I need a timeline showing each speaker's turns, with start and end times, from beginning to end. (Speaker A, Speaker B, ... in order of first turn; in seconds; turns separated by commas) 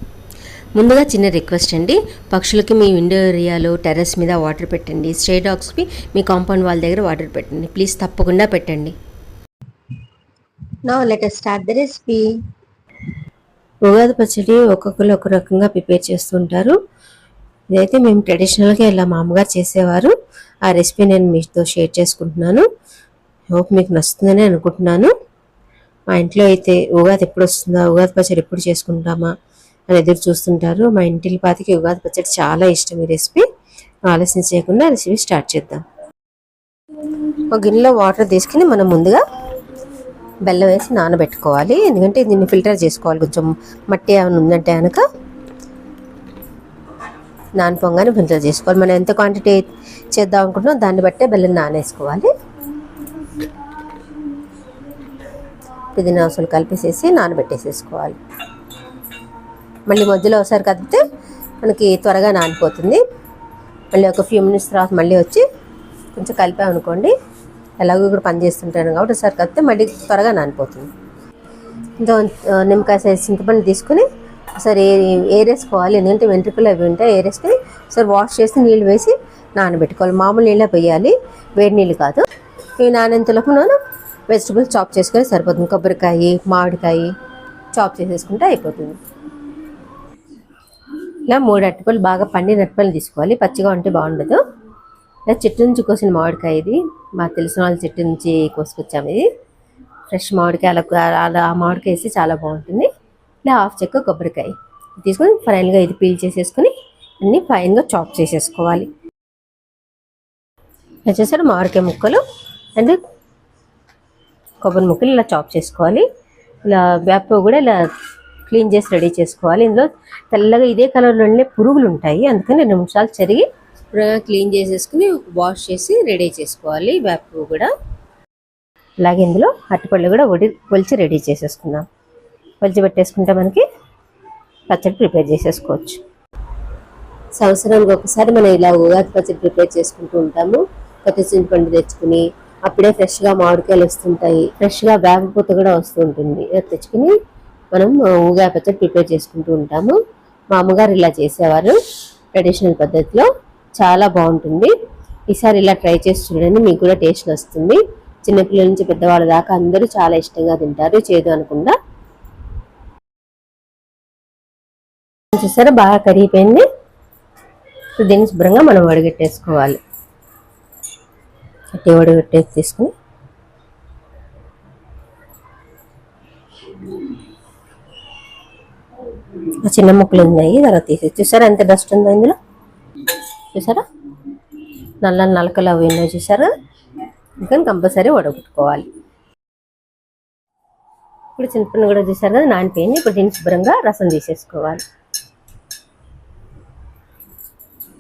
Speaker A: 0.8-8.9, Speaker A: 10.8-12.4, Speaker A: 13.8-16.8, Speaker A: 17.7-20.1, Speaker A: 20.6-22.7, Speaker A: 23.5-25.1, Speaker A: 26.1-29.3, Speaker A: 29.9-33.5, Speaker A: 34.1-35.8, Speaker A: 37.4-39.2, Speaker A: 40.4-45.0, Speaker A: 47.6-52.3, Speaker A: 55.9-58.2, Speaker A: 59.9-61.1, Speaker A: 61.6-63.0, Speaker A: 63.9-65.5, Speaker A: 66.1-67.2, Speaker A: 67.8-70.9, Speaker A: 72.0-74.1, Speaker A: 74.6-82.2, Speaker A: 82.8-83.8, Speaker A: 84.3-87.1, Speaker A: 87.7-89.0, Speaker A: 91.3-94.4, Speaker A: 95.3-99.3, Speaker A: 100.1-102.9, Speaker A: 103.4-108.9, Speaker A: 111.1-112.2, Speaker A: 114.6-116.0, Speaker A: 116.6-117.8, Speaker A: 118.5-127.7, Speaker A: 129.0-131.9, Speaker A: 132.6-133.7, Speaker A: 134.7-136.0, Speaker A: 137.4-147.2, Speaker A: 147.7-150.0, Speaker A: 150.5-151.8, Speaker A: 152.3-153.3, Speaker A: 153.8-154.7, Speaker A: 155.3-161.8, Speaker A: 165.3-166.6, Speaker A: 168.0-169.8, Speaker A: 171.8-172.9, Speaker A: 179.6-182.4, Speaker A: 183.5-183.8, Speaker A: 185.0-186.5, Speaker A: 187.4-188.9, Speaker A: 191.4-194.8